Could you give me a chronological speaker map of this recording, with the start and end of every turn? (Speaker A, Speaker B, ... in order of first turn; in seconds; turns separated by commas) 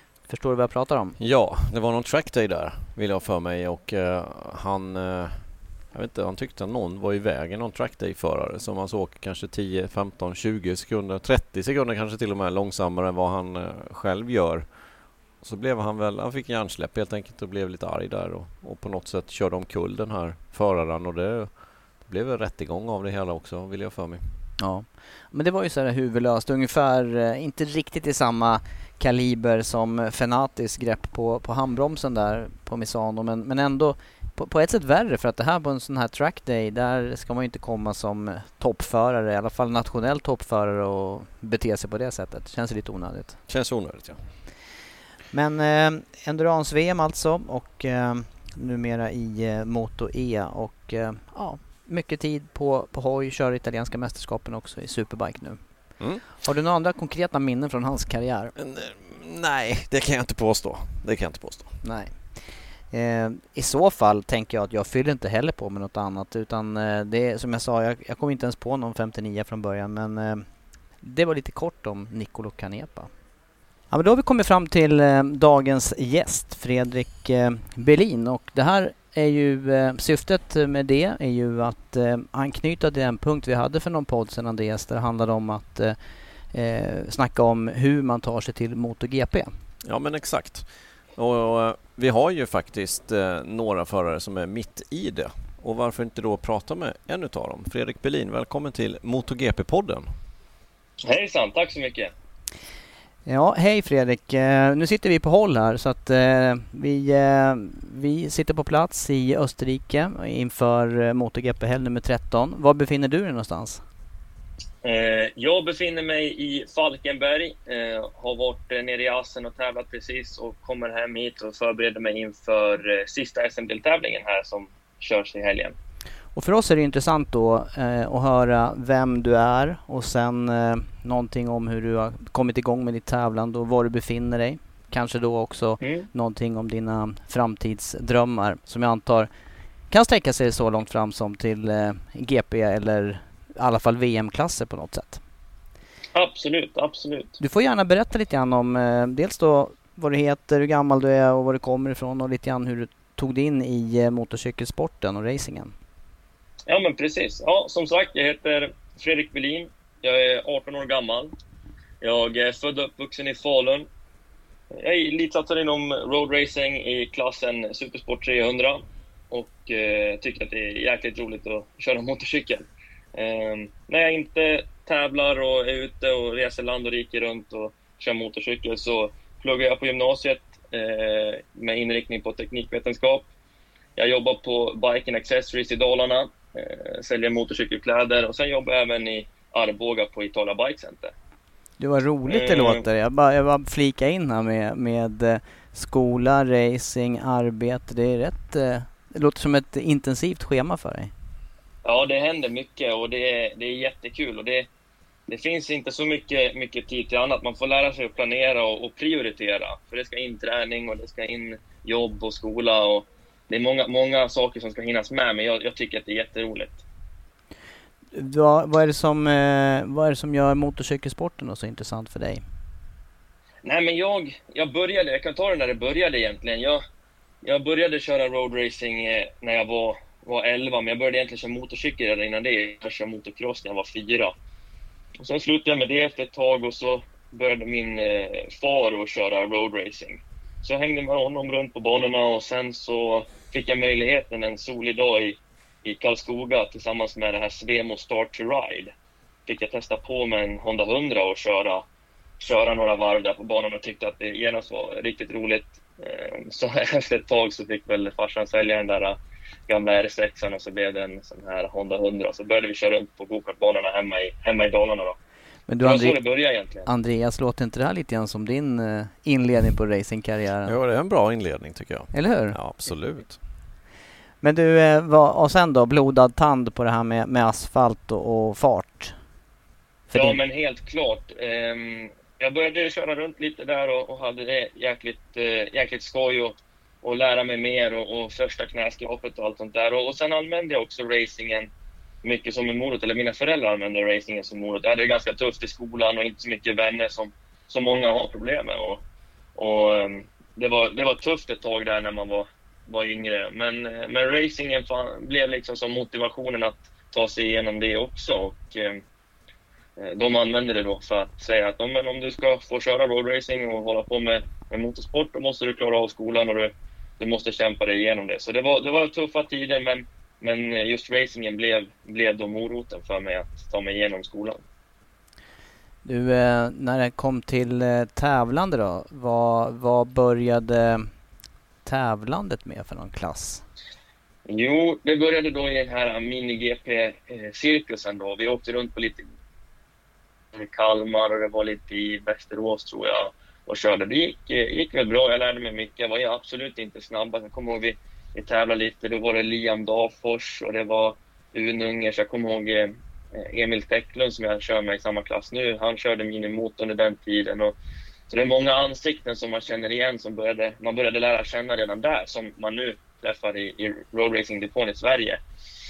Speaker A: 0.3-1.1, Speaker B: 1.2-14.7, Speaker B: 15.4-24.4, Speaker A: 24.6-43.4, Speaker B: 43.5-44.3, Speaker A: 45.3-55.6, Speaker A: 56.4-58.5, Speaker B: 58.6-61.8, Speaker A: 61.8-62.2, Speaker A: 62.9-70.5, Speaker A: 71.0-73.1, Speaker A: 73.9-86.0, Speaker A: 86.5-89.5, Speaker B: 89.8-100.1, Speaker C: 101.0-102.1, Speaker A: 103.2-113.8, Speaker C: 114.8-125.8, Speaker A: 126.3-139.3, Speaker C: 135.8-136.1, Speaker A: 139.9-145.2, Speaker C: 146.1-147.3, Speaker A: 147.4-155.8, Speaker C: 156.7-161.3, Speaker C: 162.0-163.9, Speaker C: 164.7-183.3, Speaker C: 184.0-191.1, Speaker A: 191.8-201.1, Speaker C: 192.3-192.8, Speaker C: 201.8-204.7, Speaker C: 205.3-216.8, Speaker A: 218.1-222.4, Speaker C: 223.6-226.8, Speaker C: 227.4-234.3, Speaker C: 235.2-248.9, Speaker C: 249.4-251.8, Speaker C: 252.4-259.2, Speaker C: 259.7-265.2, Speaker A: 265.7-266.2, Speaker C: 265.8-266.9, Speaker A: 266.8-270.7, Speaker B: 270.7-273.4, Speaker A: 272.1-272.6, Speaker A: 274.4-279.1, Speaker A: 280.1-280.4, Speaker C: 280.1-291.7, Speaker C: 292.2-299.0, Speaker C: 299.6-309.0, Speaker C: 310.0-324.6, Speaker A: 326.0-331.1, Speaker A: 331.8-333.6, Speaker C: 334.5-339.3, Speaker C: 340.5-357.7, Speaker C: 358.3-365.4